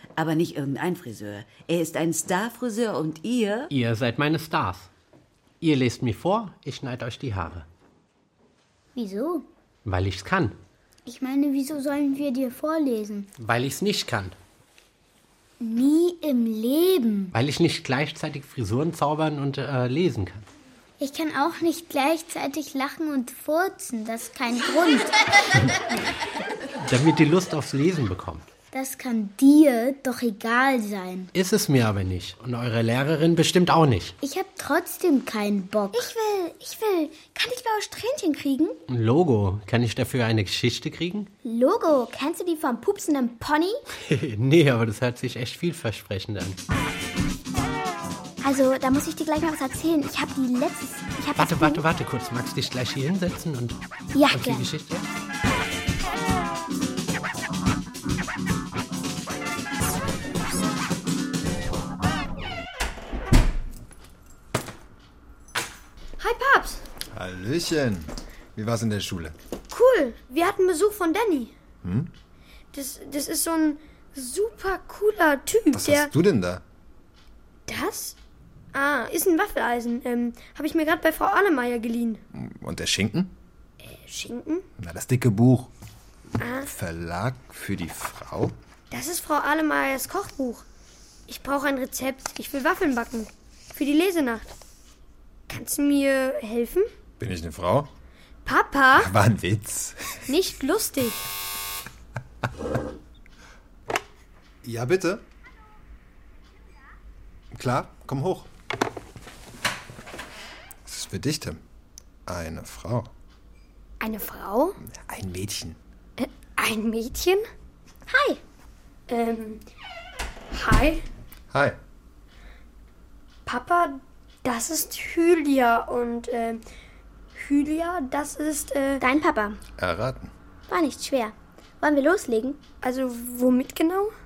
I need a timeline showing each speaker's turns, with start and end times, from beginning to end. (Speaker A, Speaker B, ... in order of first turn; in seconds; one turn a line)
Speaker A: 0.2-3.7
Speaker B: 3.7-4.9
Speaker B: 5.6-7.7
Speaker C: 9.0-9.4
Speaker B: 9.8-10.6
Speaker C: 11.1-13.3
Speaker B: 13.4-14.3
Speaker C: 15.6-17.3
Speaker B: 17.3-20.4
Speaker C: 21.0-25.1
Speaker B: 26.9-28.5
Speaker C: 28.7-31.3
Speaker B: 31.3-34.1
Speaker C: 34.2-36.1
Speaker D: 35.9-38.8
Speaker B: 38.9-41.3
Speaker D: 41.4-43.8
Speaker B: 44.1-46.6
Speaker D: 48.4-51.8
Speaker B: 51.4-53.8
Speaker D: 54.1-54.7
Speaker B: 54.3-55.0
Speaker E: 66.2-66.8
Speaker F: 67.1-69.3
Speaker E: 69.7-71.5
Speaker F: 71.8-72.1
Speaker E: 72.7-76.1
Speaker F: 75.7-76.6
Speaker E: 77.7-78.2
Speaker E: 78.7-82.2
Speaker F: 82.3-83.3
Speaker E: 83.9-84.7
Speaker F: 84.8-85.7
Speaker E: 86.4-86.7
Speaker F: 86.6-88.5
Speaker E: 88.9-90.7
Speaker E: 91.3-94.5
Speaker E: 95.5-96.9
Speaker F: 97.2-97.9
Speaker E: 98.5-99.1
Speaker F: 99.0-100.1
Speaker E: 100.3-101.3
Speaker F: 104.6-105.2
Speaker F: 107.5-108.5
Speaker F: 110.9-111.6
Speaker F: 112.3-113.1
Speaker E: 114.0-114.8
Speaker F: 114.8-115.8
Speaker E: 116.2-117.4
Speaker D: 118.1-118.4
Speaker E: 119.1-119.6
Speaker E: 120.5-121.0
Speaker F: 121.5-121.8
Speaker E: 123.5-126.6
Speaker E: 127.3-129.0
Speaker D: 129.0-129.6
Speaker F: 129.8-130.3
Speaker D: 130.7-132.6
Speaker E: 132.8-134.1